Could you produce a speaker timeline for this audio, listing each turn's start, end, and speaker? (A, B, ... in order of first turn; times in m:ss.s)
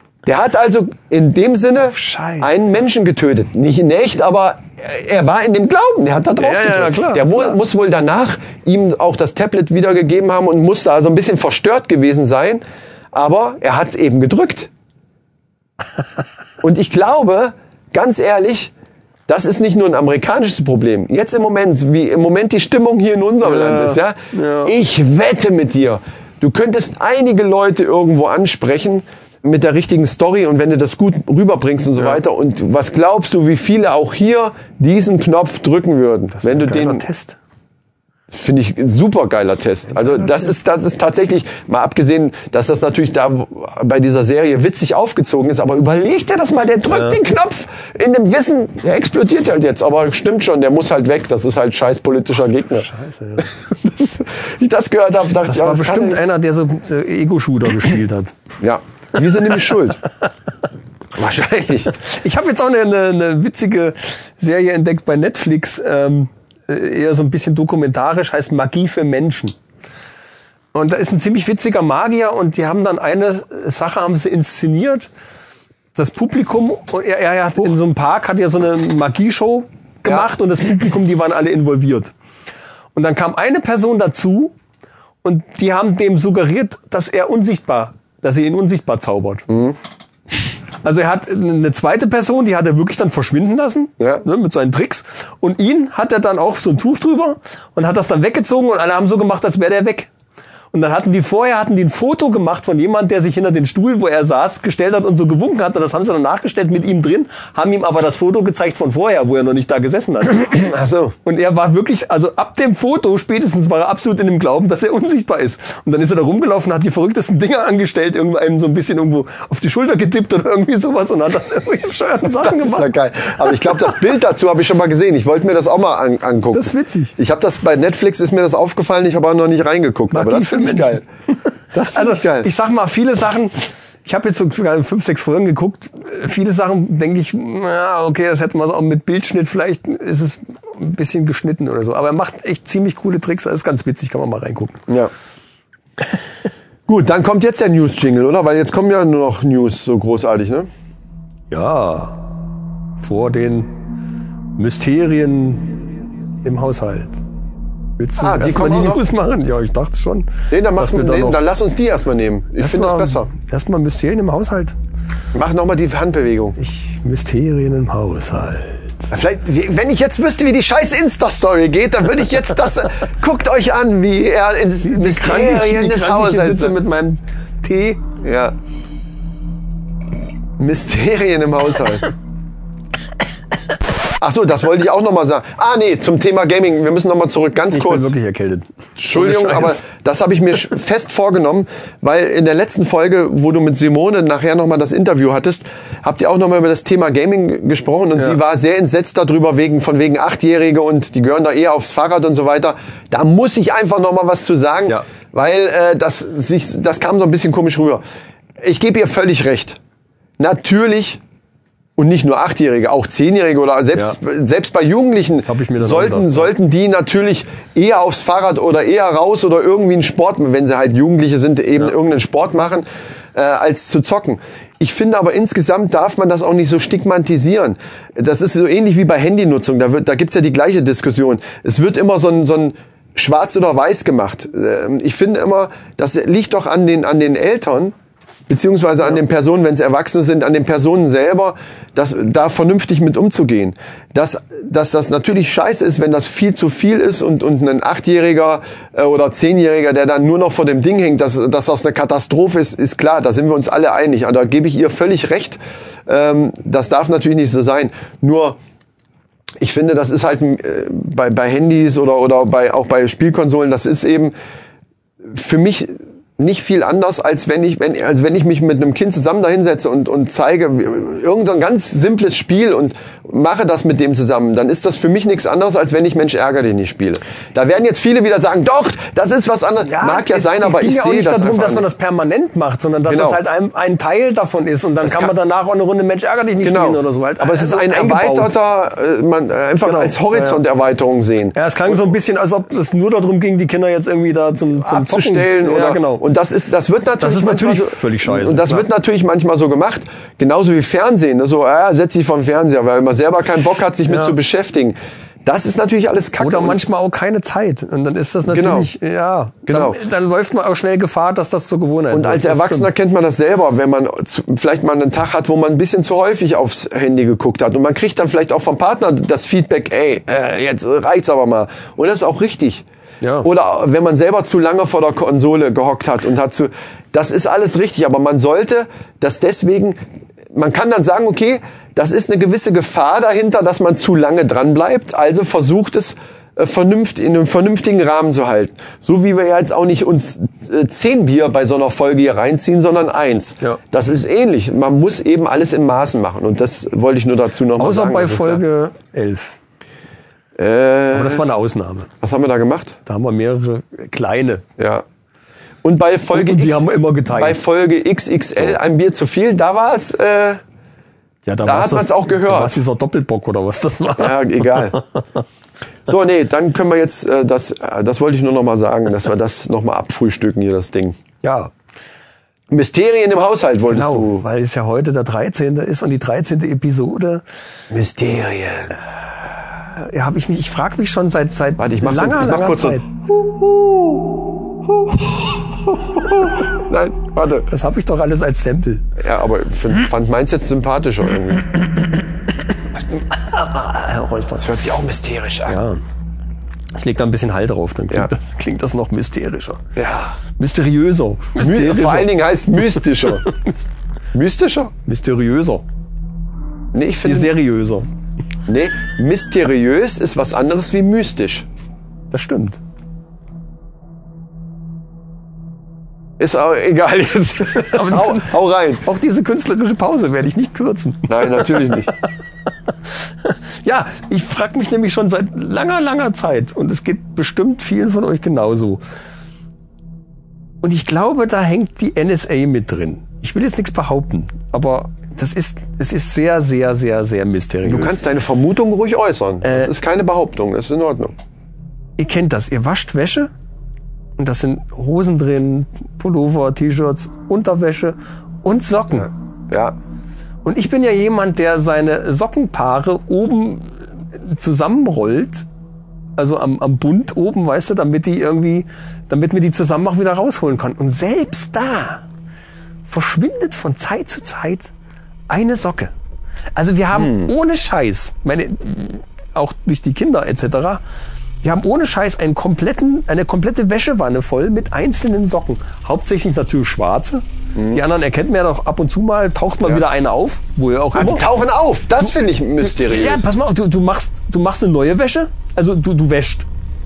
0:00.2-0:14.7 A
0:01.8-0:02.5 B
0:06.4-0:07.5 B
0:16.6-0:18.7 A
0:19.3-0:37.0 A
0:23.4-0:24.7 B
0:36.3-0:37.4 B
0:38.3-0:52.9 A
0:40.0-0:40.5 B
0:52.8-0:53.5 B
0:53.5-0:56.2 A
0:55.4-0:58.4 B
0:58.6-1:00.0 A
1:01.2-1:01.9 A
1:02.0-1:09.6 B
1:10.7-1:15.1 B
1:15.9-1:22.1 B
1:22.9-1:24.5 B
1:25.2-1:29.5 B
1:29.5-1:29.8 A
1:30.8-1:40.1 B
1:40.7-1:50.6 B
1:50.5-1:51.1 A
1:51.2-2:02.9 B
2:02.4-2:11.0 A
2:06.5-2:07.1 B
2:10.1-2:11.0 B
2:11.7-2:12.5 A
2:11.9-2:24.8 B
2:26.9-2:30.7 A
2:31.5-2:32.2 B
2:33.0-2:33.7 B
2:34.6-2:35.9 B
2:36.4-2:37.2 B
2:38.0-2:41.4 B
2:38.2-2:39.0 A
2:40.5-2:43.3 A
2:42.6-2:44.7 B
2:45.3-2:46.6 A
2:46.6-2:49.1 B
2:49.1-2:56.8 A
2:54.8-2:58.0 B
2:58.2-2:58.6 A
3:00.6-3:02.1 A
3:04.2-3:08.1 A
3:07.7-3:09.8 B
3:09.0-3:28.0 A
3:28.6-3:29.8 A
3:30.4-3:31.2 A
3:32.0-3:57.9 A
3:35.4-3:36.5 B
3:58.5-4:18.6 A
4:19.6-4:24.3 A
4:25.2-4:41.9 A
4:39.8-4:48.5 B
4:43.1-4:43.4 A
4:45.0-4:45.3 A
4:46.6-4:52.1 A
4:49.8-4:50.6 B
4:51.5-4:56.2 B
4:54.7-5:06.8 A
4:57.2-4:58.9 B
5:04.1-5:04.3 B
5:06.4-5:12.9 B
5:08.5-5:08.9 A
5:09.7-5:10.0 A
5:12.1-5:22.8 A
5:23.2-5:23.5 B
5:23.4-5:30.0 A
5:30.5-5:48.6 A
5:47.8-5:49.6 B
5:50.6-5:51.4 A
5:51.1-5:52.1 B
5:52.2-5:53.0 A
5:53.0-5:54.6 B
5:54.8-5:55.0 A
5:55.8-6:00.6 A
5:56.3-5:57.6 B
6:01.4-6:05.0 B
6:01.6-6:02.8 A
6:04.2-6:05.0 A
6:06.0-6:11.2 A
6:11.4-6:11.7 B
6:12.7-6:14.4 A
6:13.9-6:17.4 B
6:17.9-6:19.0 A
6:19.9-6:23.1 B
6:21.8-6:27.7 A
6:27.7-6:29.0 B
6:29.2-6:31.7 A
6:33.4-6:34.6 B
6:34.5-6:35.8 A
6:35.6-6:36.0 B
6:36.9-6:39.8 B
6:40.0-6:40.4 A
6:40.6-6:42.3 B
6:41.6-6:43.5 A
6:44.3-6:44.9 A
6:45.0-6:45.8 B
6:46.9-6:47.6 A
6:47.2-6:48.1 B
6:48.7-6:51.7 A
6:52.3-6:52.8 B
6:56.4-6:59.0 A
6:57.8-7:02.0 B
7:01.3-7:02.1 A
7:03.4-7:09.0 B
7:10.8-7:18.2 B
7:17.8-7:21.3 A
7:19.6-7:19.9 B
7:22.2-7:23.5 B
7:24.4-7:29.3 B
7:29.7-7:30.0 A
7:30.6-7:35.6 B
7:36.4-7:42.2 B
7:43.1-7:44.9 B
7:45.5-7:46.1 B
7:46.8-7:51.0 B
7:47.1-7:47.5 A
7:51.6-8:01.5 B
7:57.7-7:58.0 A
8:01.1-8:03.5 A
8:02.8-8:06.7 B